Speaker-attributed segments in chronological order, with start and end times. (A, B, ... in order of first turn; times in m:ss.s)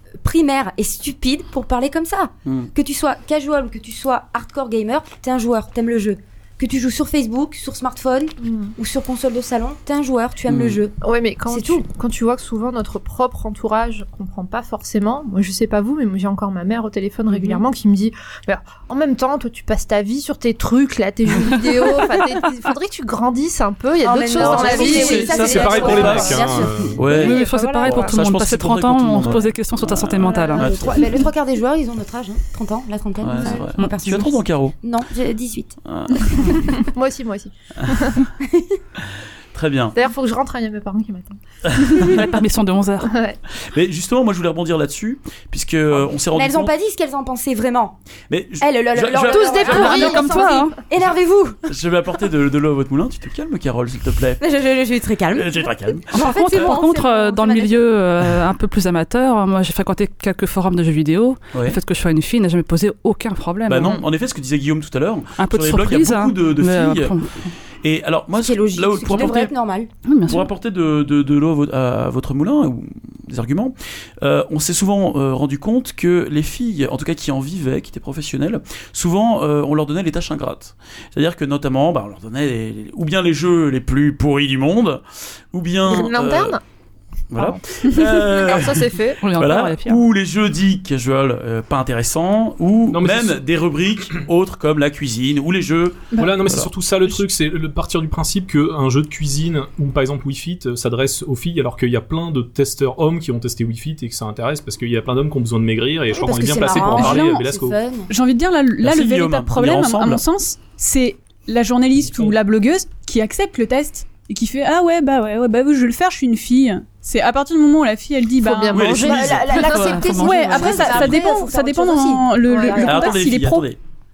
0:00.2-0:10.9 A
0:02.4-0:02.7 B
0:08.4-0:08.7 C
0:10.5-0:10.8 B
0:11.0-0:28.2 C
0:11.5-0:11.8 A
0:17.3-0:17.6 A
0:24.0-0:26.9 A
0:24.4-0:31.0 B
0:24.9-0:27.1 D
0:27.1-0:30.7 E
0:30.2-0:31.0 C
0:30.6-0:35.8 A
0:33.2-0:34.7 B
0:33.4-0:33.6 C
0:35.8-0:36.9 B
0:36.8-0:38.3 C
0:37.8-0:38.1 B
0:38.4-0:38.8 A
0:39.0-0:40.0 B
0:39.9-0:41.4 C
0:41.6-0:42.4 B
0:41.9-0:43.2 E
0:43.0-0:43.4 C
0:43.5-0:46.7 B
0:46.3-0:48.0 A
0:48.3-0:50.1 B
0:48.6-0:51.6 A
0:49.2-0:50.8 C
0:49.6-0:50.8 E
0:51.7-0:54.4 B
0:54.4-0:57.8 A
0:55.3-0:56.7 B
0:56.1-1:04.0 E
1:01.5-1:01.8 B
1:03.7-1:07.2 B
1:05.4-1:07.6 E
1:07.8-1:09.5 B
1:08.4-1:09.9 A
1:10.0-1:10.5 E
1:10.3-1:26.6 B
1:25.9-1:26.6 C
1:27.3-1:36.7 B
1:27.4-1:29.2 C
1:29.2-1:30.0 E
1:32.9-1:33.4 D
1:36.2-1:47.8 D
1:46.1-1:48.1 A
1:46.7-1:47.4 F
1:48.1-1:59.0 F
1:48.8-1:50.2 B
1:58.4-2:00.7 C
1:58.7-1:59.6 B
1:58.9-2:03.2 A
1:59.5-2:01.1 E
2:00.1-2:03.7 F
2:02.5-2:02.9 C
2:02.8-2:03.8 B